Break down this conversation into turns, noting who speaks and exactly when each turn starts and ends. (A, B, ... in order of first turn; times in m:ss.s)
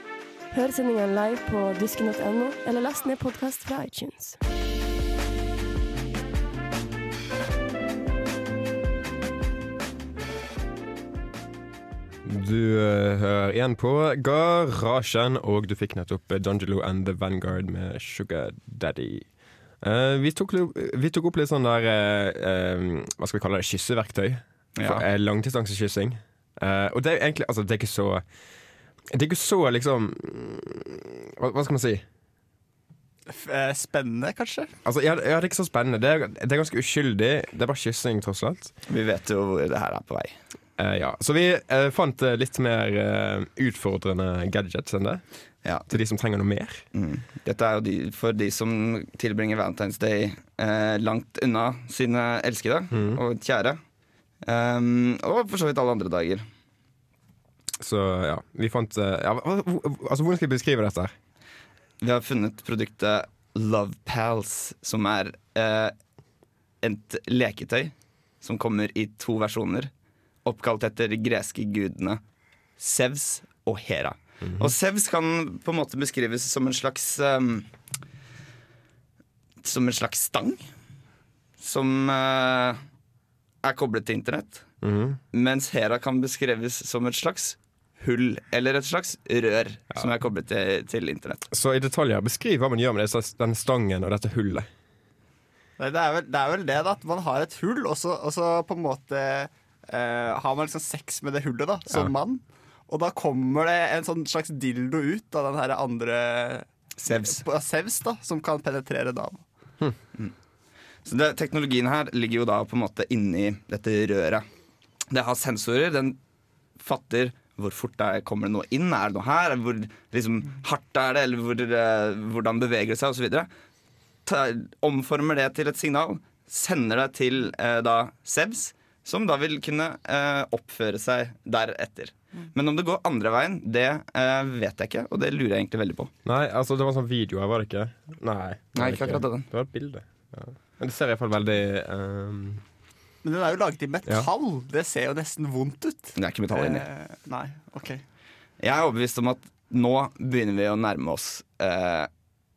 0:00.5-0:04.4 A
0:12.2-0:19.3 B
0:19.8-0:28.2 B
0:24.8-0:25.0 C
0:29.1-0:32.0 B
0:33.3-0:34.7 D
0:34.8-0:38.7 B
0:38.9-0:40.4 C
0:40.8-0:45.2 B
0:45.9-0:46.8 B
0:46.9-0:53.8 C
0:52.9-0:53.2 B
0:54.4-0:56.4 C
0:57.8-1:01.1 B
1:02.0-1:05.9 C
1:06.8-1:09.9 C
1:10.4-1:12.2 C
1:12.8-1:17.7 C
1:14.4-1:14.7 B
1:19.6-1:20.6 C
1:21.6-1:22.8 C
1:23.6-1:24.7 C
1:24.8-1:25.2 B
1:25.3-1:31.5 C
1:31.5-1:34.7 B
1:35.8-1:49.4 D
1:47.0-1:47.4 C
1:51.0-1:54.4 C
1:55.1-1:56.2 C
1:56.8-2:03.5 C
2:04.2-2:16.1 C
2:16.2-2:22.6 B
2:18.7-2:19.5 C
2:23.2-2:28.0 D
2:26.2-2:26.8 C
2:28.6-2:32.1 C